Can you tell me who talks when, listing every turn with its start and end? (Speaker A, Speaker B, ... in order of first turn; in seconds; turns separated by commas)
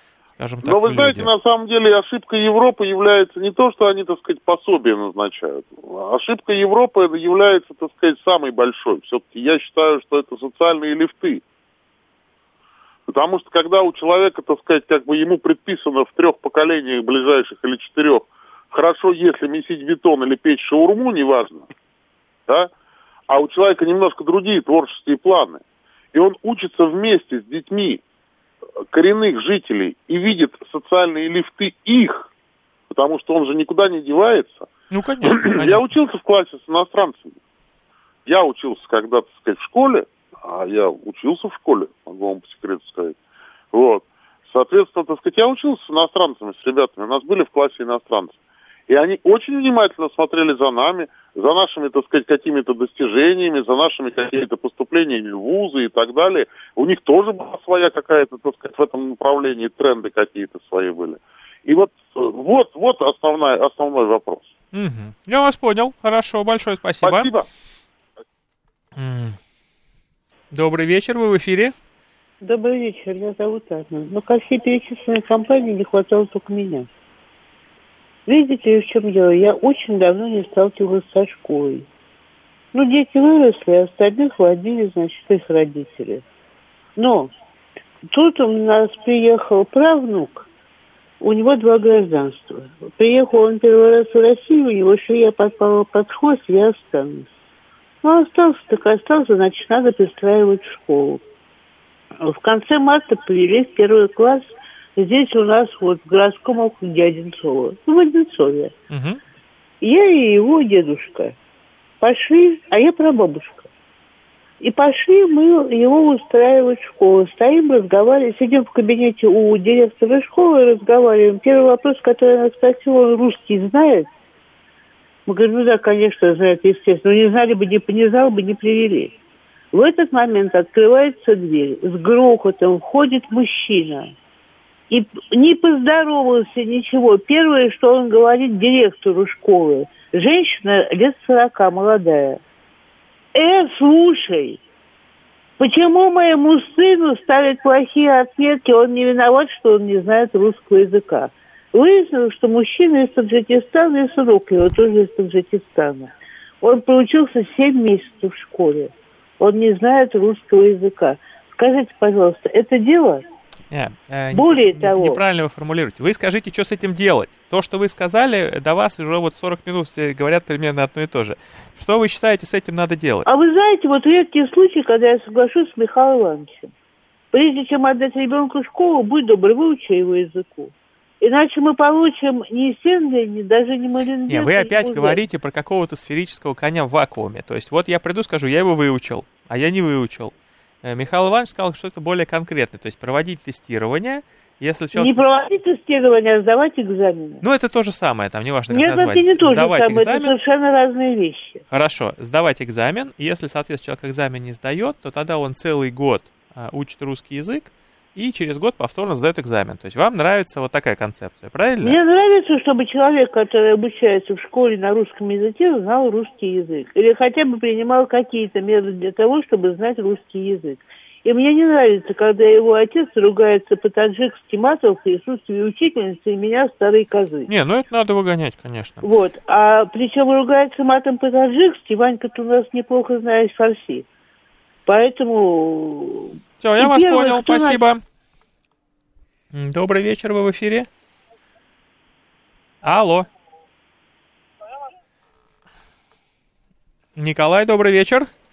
Speaker A: 0.3-1.3, Speaker B: 0.6-11.4, Speaker B: 13.1-21.6, Speaker B: 23.3-25.6, Speaker B: 26.1-28.0, Speaker B: 28.9-32.3, Speaker B: 32.9-34.7, Speaker A: 34.9-35.9, Speaker B: 35.2-37.4, Speaker B: 38.2-43.2, Speaker B: 43.7-64.5, Speaker A: 64.7-67.3, Speaker B: 67.0-67.5, Speaker A: 69.0-69.4, Speaker A: 70.5-71.7, Speaker C: 72.4-76.9, Speaker C: 78.2-81.9, Speaker C: 82.7-86.2, Speaker C: 87.0-87.3, Speaker C: 88.1-90.5, Speaker C: 91.2-97.3, Speaker C: 98.0-101.2, Speaker C: 102.2-108.7, Speaker A: 108.9-109.2, Speaker C: 109.8-111.3, Speaker C: 112.0-113.7, Speaker C: 114.6-124.1, Speaker C: 125.2-129.1, Speaker C: 129.7-134.1, Speaker C: 134.9-142.4, Speaker C: 143.3-144.6, Speaker C: 145.6-163.2, Speaker A: 163.7-173.2, Speaker C: 164.3-165.2, Speaker C: 173.2-176.7, Speaker C: 177.3-185.2, Speaker A: 184.3-195.2, Speaker C: 194.9-197.4, Speaker A: 197.4-200.3, Speaker C: 198.7-201.6, Speaker A: 201.7-212.0, Speaker C: 211.8-227.5, Speaker A: 227.5-229.1, Speaker C: 229.0-234.1, Speaker C: 234.8-237.8, Speaker A: 236.6-238.0, Speaker A: 239.5-240.9, Speaker A: 242.8-243.3, Speaker A: 247.2-248.3